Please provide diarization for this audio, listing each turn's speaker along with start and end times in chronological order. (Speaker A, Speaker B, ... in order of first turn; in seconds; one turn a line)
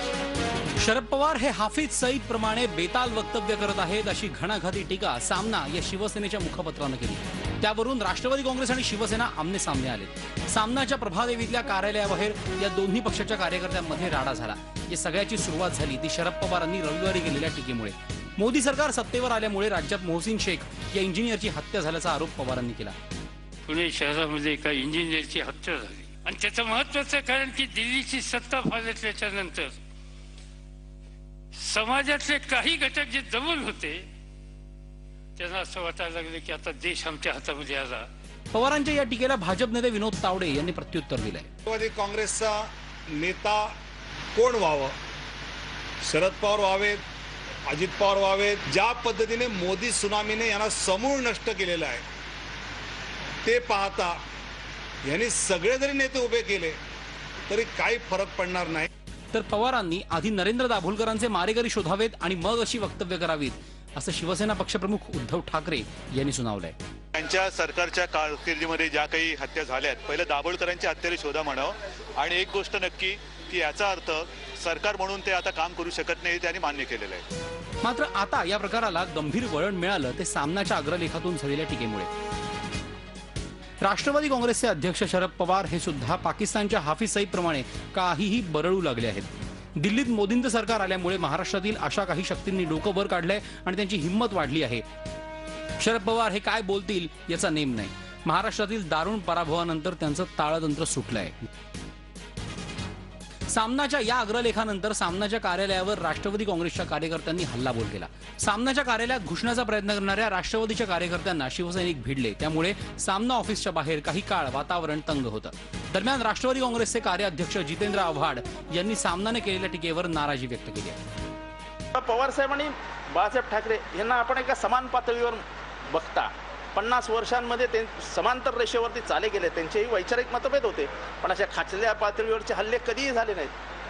Speaker A: 0.8-22.9
Speaker B: 23.6-29.8
Speaker B: 31.5-34.0
Speaker B: 35.4-38.1
Speaker A: 38.5-41.5
Speaker C: 41.7-43.7
Speaker C: 44.3-45.0
Speaker C: 46.0-47.0
Speaker C: 47.7-52.0
Speaker C: 53.5-54.2
Speaker C: 55.0-56.8
Speaker C: 57.5-58.9
Speaker A: 59.3-66.8
Speaker D: 67.2-77.2
Speaker A: 77.8-82.1
Speaker A: 83.8-94.8
Speaker A: 95.8-101.4
Speaker A: 103.5-121.0
Speaker E: 121.9-133.6